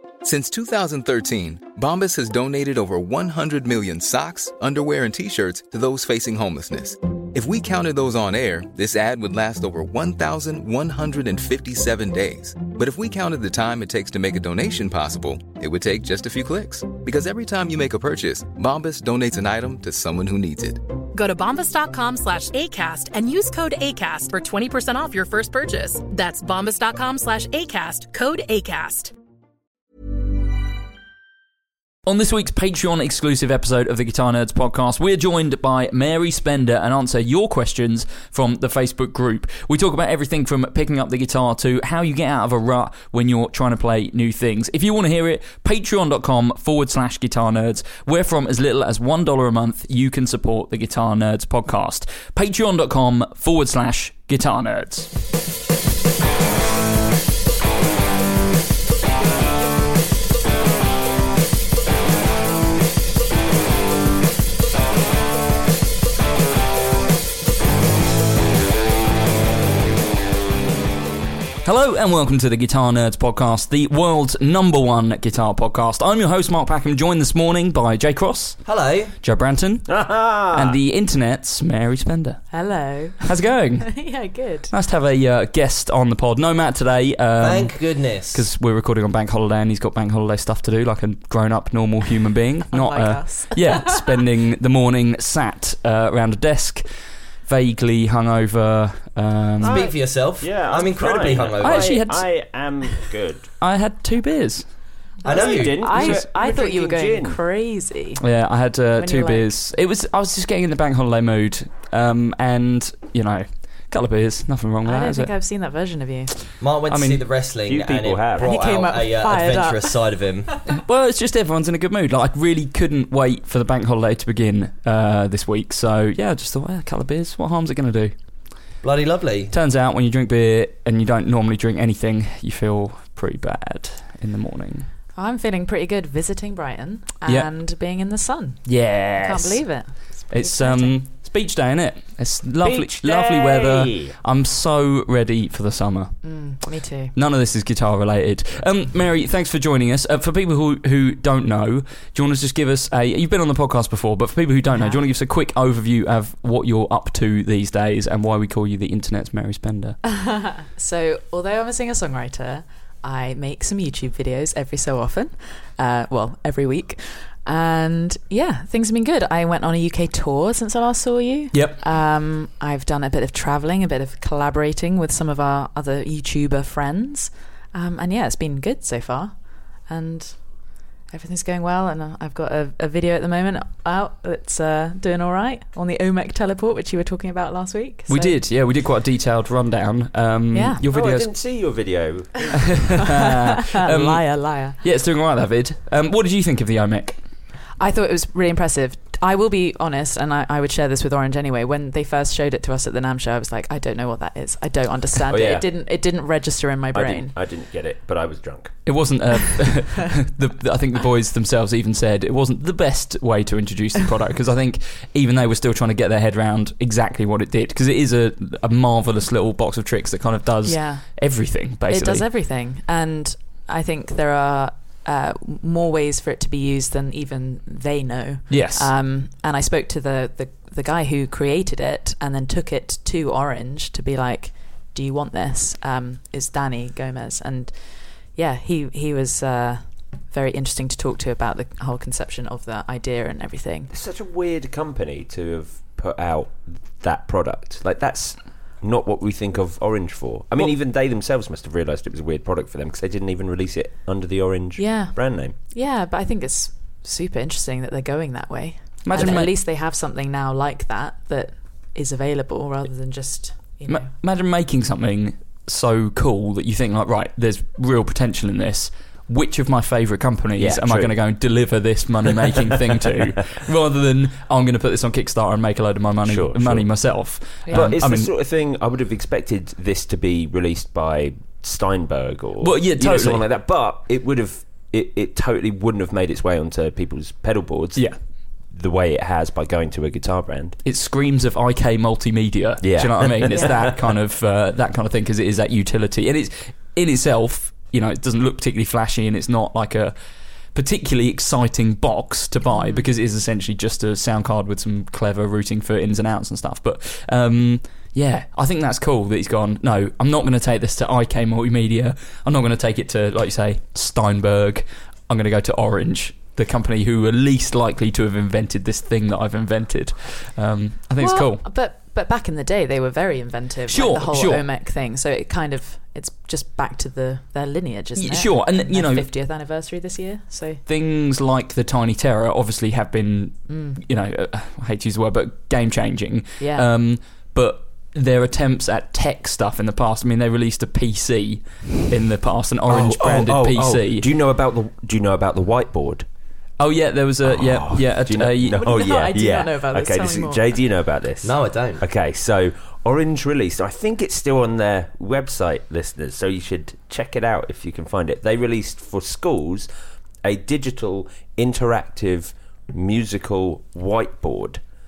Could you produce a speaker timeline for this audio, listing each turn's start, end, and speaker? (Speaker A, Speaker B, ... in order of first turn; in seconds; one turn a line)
Speaker A: 0.2-20.8
Speaker B: 21.1-29.1
Speaker C: 32.1-55.1
Speaker C: 71.7-78.7
Speaker D: 78.7-79.2
Speaker C: 79.2-82.5
Speaker E: 79.9-80.8
Speaker F: 82.5-84.7
Speaker C: 83.2-84.1
Speaker C: 84.7-96.8
Speaker D: 87.4-88.5
Speaker F: 92.7-94.2
Speaker C: 97.5-99.8
Speaker D: 99.6-102.0
Speaker E: 99.6-103.5
Speaker C: 101.6-102.3
Speaker C: 103.6-104.7
Speaker F: 105.2-108.2
Speaker D: 105.2-106.0
Speaker E: 105.3-107.4
Speaker C: 105.9-106.2
Speaker C: 108.2-115.3
Speaker F: 109.0-109.5
Speaker F: 114.8-116.5
Speaker D: 116.6-120.5
Speaker C: 116.9-117.2
Speaker E: 117.7-118.5
Speaker F: 118.4-120.5
Speaker C: 120.7-128.1
Speaker D: 128.8-129.5
Speaker C: 129.5-134.9
Speaker F: 135.2-141.0
Speaker C: 138.7-139.6
Speaker C: 140.3-146.2
Speaker E: 142.6-144.2
Speaker F: 146.2-147.1
Speaker C: 147.1-160.0
Speaker F: 154.7-155.0
Speaker F: 160.0-188.4
Speaker C: 171.5-171.8
Speaker C: 188.1-191.3
Speaker F: 190.5-190.8
Speaker E: 190.9-192.9
Speaker C: 192.8-197.2
Speaker F: 193.2-194.8
Speaker F: 197.8-207.3
Speaker E: 205.2-205.7
Speaker E: 206.9-208.8
Speaker C: 208.9-222.2
Speaker F: 220.7-221.3
Speaker F: 221.9-243.9
Speaker C: 228.5-228.9
Speaker E: 243.9-255.6
Speaker F: 254.8-264.1
Speaker C: 259.1-259.5
Speaker E: 259.1-259.4
Speaker C: 263.9-278.3
Speaker E: 270.6-271.2
Speaker E: 276.2-276.9
Speaker F: 277.6-277.9
Speaker E: 277.7-288.1
Speaker C: 282.6-283.4
Speaker E: 288.7-290.8
Speaker C: 290.9-300.1
Speaker E: 292.8-294.0
Speaker C: 300.7-321.6
Speaker F: 302.7-303.1
Speaker F: 321.2-330.8
Speaker C: 323.9-324.6
Speaker C: 328.2-329.3
Speaker C: 330.9-344.3
Speaker F: 333.7-334.0
Speaker F: 336.6-336.9
Speaker E: 342.9-346.3
Speaker C: 346.8-348.8
Speaker E: 347.4-359.9
Speaker F: 348.8-350.8
Speaker D: 351.4-352.0
Speaker E: 360.4-364.8